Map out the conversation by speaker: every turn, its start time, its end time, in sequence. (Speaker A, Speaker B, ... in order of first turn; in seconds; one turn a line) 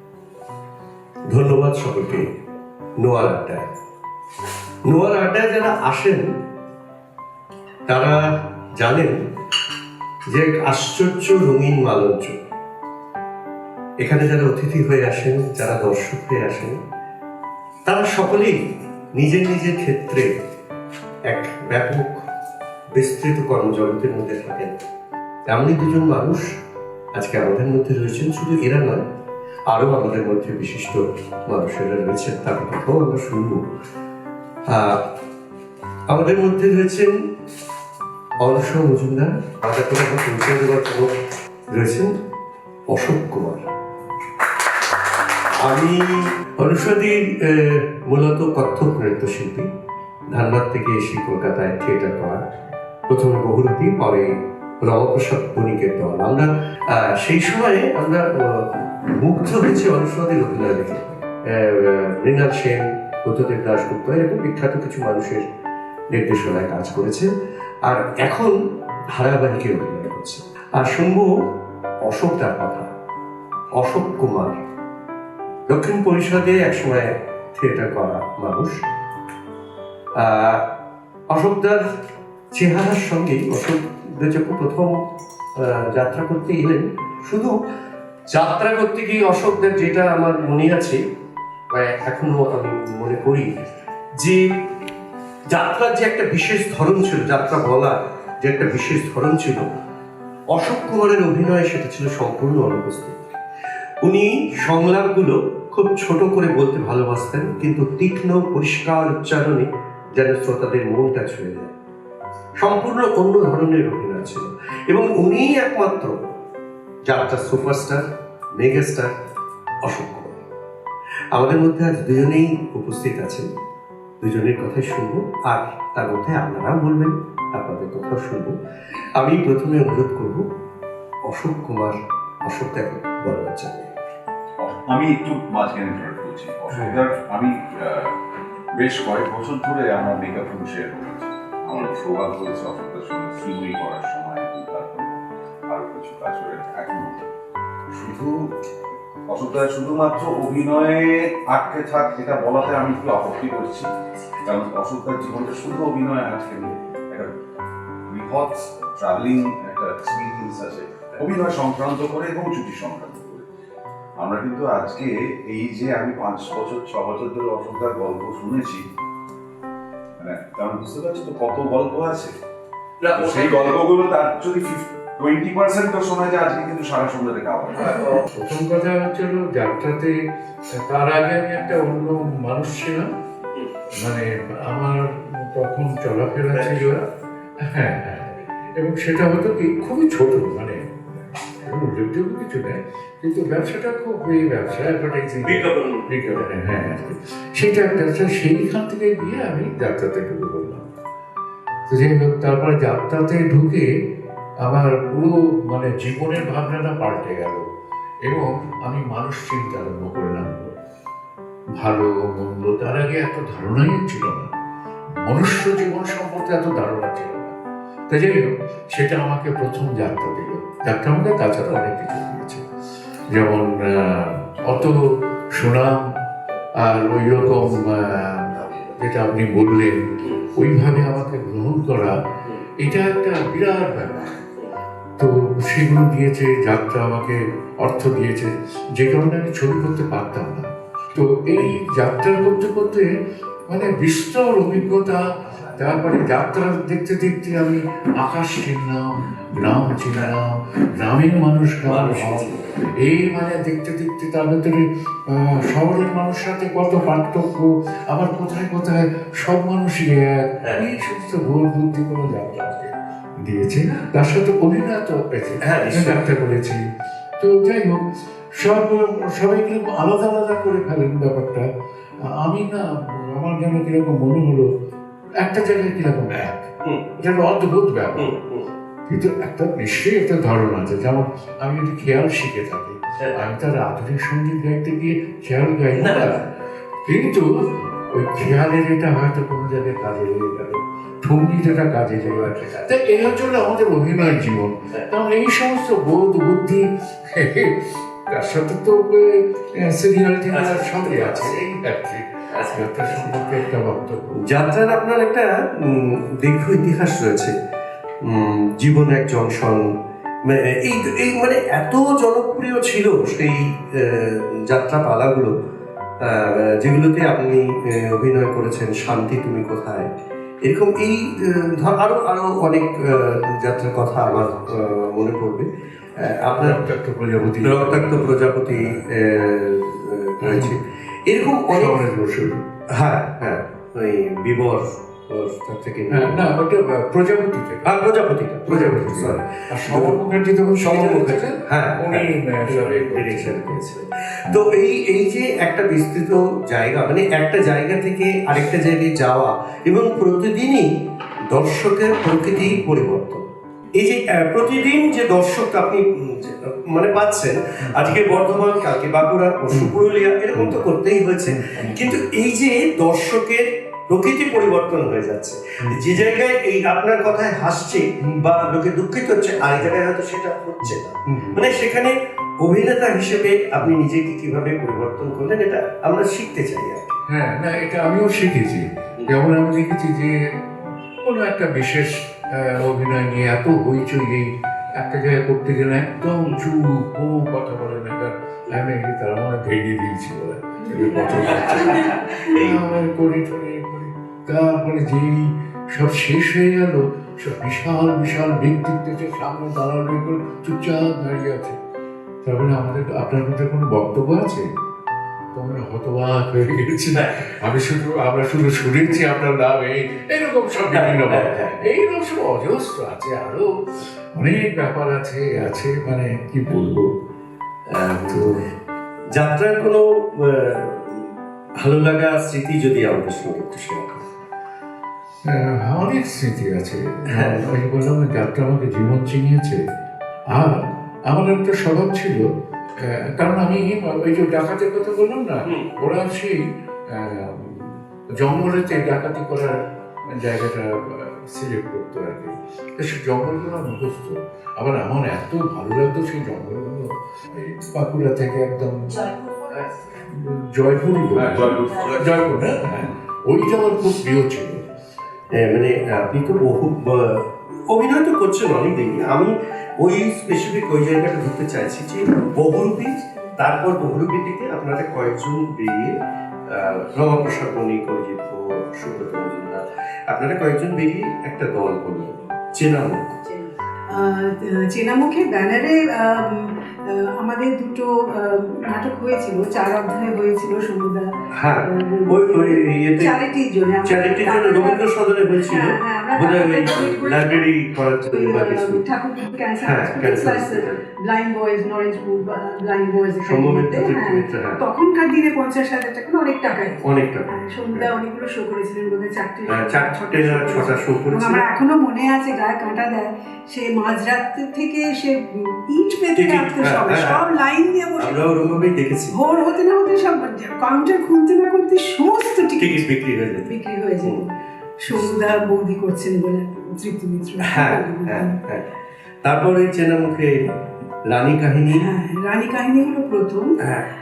Speaker A: 1.3-2.3
Speaker A: 3.0-3.6
Speaker A: 4.9-6.3
Speaker A: 7.9-8.2
Speaker A: 8.8-9.2
Speaker A: 10.3-12.4
Speaker A: 14.0-16.8
Speaker A: 17.9-18.6
Speaker A: 19.2-20.3
Speaker A: 21.3-22.2
Speaker A: 22.9-24.7
Speaker A: 25.5-26.4
Speaker A: 27.1-29.0
Speaker A: 29.7-33.6
Speaker A: 34.7-35.1
Speaker A: 36.1-37.1
Speaker A: 38.4-41.1
Speaker A: 41.7-42.1
Speaker A: 42.9-43.6
Speaker A: 45.6-49.7
Speaker A: 50.3-52.4
Speaker A: 53.1-54.3
Speaker A: 54.8-65.5
Speaker A: 66.1-67.3
Speaker A: 67.8-68.5
Speaker A: 69.1-71.3
Speaker A: 72.0-72.9
Speaker A: 73.8-74.6
Speaker A: 75.7-78.8
Speaker A: 80.2-80.7
Speaker A: 81.3-81.8
Speaker A: 82.5-84.9
Speaker A: 85.6-87.6
Speaker A: 88.3-91.0
Speaker A: 91.7-93.5
Speaker A: 94.2-94.6
Speaker A: 95.5-99.7
Speaker A: 100.5-103.2
Speaker A: 104.0-111.7
Speaker A: 112.6-116.1
Speaker A: 117.1-118.0
Speaker A: 118.6-119.1
Speaker A: 119.8-120.4
Speaker A: 121.3-123.5
Speaker A: 124.2-128.6
Speaker A: 129.2-130.5
Speaker A: 131.2-133.9
Speaker B: 134.6-138.2
Speaker C: 136.7-137.0
Speaker B: 138.7-145.1
Speaker B: 145.7-147.2
Speaker B: 147.9-148.6
Speaker B: 149.3-153.9
Speaker B: 154.4-157.3
Speaker B: 158.1-163.4
Speaker B: 164.2-168.8
Speaker B: 170.2-172.3
Speaker A: 173.0-173.6
Speaker B: 173.1-178.0
Speaker C: 178.2-180.2
Speaker C: 180.8-183.1
Speaker C: 184.0-187.0
Speaker A: 186.5-187.1
Speaker C: 187.6-200.9
Speaker A: 195.4-196.1
Speaker C: 201.9-203.9
Speaker C: 204.6-207.7
Speaker C: 208.3-210.7
Speaker C: 211.8-214.5
Speaker C: 215.2-217.6
Speaker C: 218.1-222.7
Speaker C: 223.3-226.0
Speaker C: 226.8-232.2
Speaker C: 232.8-234.4
Speaker C: 235.2-243.1
Speaker C: 243.7-245.2
Speaker C: 245.8-266.8
Speaker A: 251.9-252.7
Speaker A: 265.6-266.2
Speaker C: 267.4-268.0
Speaker C: 268.6-271.7
Speaker C: 272.4-274.7
Speaker C: 275.4-276.7
Speaker A: 276.8-277.2
Speaker C: 277.2-278.4
Speaker A: 278.2-278.7
Speaker C: 279.1-286.5
Speaker A: 285.9-286.4
Speaker C: 287.1-304.4
Speaker A: 292.3-293.0
Speaker A: 300.5-301.6
Speaker A: 302.5-303.3
Speaker A: 304.4-307.5
Speaker A: 308.2-309.9
Speaker A: 310.4-315.6
Speaker A: 316.2-320.1
Speaker A: 320.6-326.8
Speaker C: 326.5-329.0
Speaker A: 327.6-332.0
Speaker C: 330.4-330.8
Speaker C: 331.7-332.7
Speaker A: 332.9-336.5
Speaker C: 336.1-338.0
Speaker A: 337.9-340.2
Speaker C: 338.7-343.8
Speaker A: 340.8-350.9
Speaker A: 351.5-353.4
Speaker A: 354.0-377.2
Speaker C: 357.8-358.2
Speaker C: 359.7-360.0
Speaker C: 361.5-362.2
Speaker C: 365.8-366.2
Speaker C: 377.3-380.4
Speaker C: 381.2-401.8
Speaker D: 390.9-391.4
Speaker A: 391.3-392.8
Speaker C: 402.4-404.7
Speaker C: 405.5-413.7
Speaker A: 407.2-407.4
Speaker A: 410.9-411.8
Speaker C: 414.3-417.1
Speaker A: 417.9-418.6
Speaker C: 418.2-418.6
Speaker A: 419.3-424.2
Speaker C: 425.5-429.8
Speaker A: 427.3-427.7
Speaker C: 430.5-432.4
Speaker C: 433.0-439.8
Speaker A: 435.7-435.9
Speaker C: 440.3-454.9
Speaker A: 451.7-452.2
Speaker A: 455.5-473.4
Speaker D: 473.5-481.3
Speaker A: 481.6-483.4
Speaker D: 481.8-485.0
Speaker A: 484.1-489.0
Speaker D: 485.6-487.6
Speaker D: 488.3-508.5
Speaker A: 489.8-491.0
Speaker A: 493.4-494.8
Speaker A: 497.0-498.1
Speaker A: 499.7-501.6
Speaker A: 506.4-507.4
Speaker A: 508.2-509.3
Speaker D: 509.3-513.0
Speaker A: 512.8-513.7
Speaker D: 513.7-514.5
Speaker D: 515.0-518.6
Speaker A: 517.7-518.9
Speaker A: 519.4-520.6
Speaker A: 521.3-522.1
Speaker D: 522.0-523.8
Speaker A: 523.8-524.1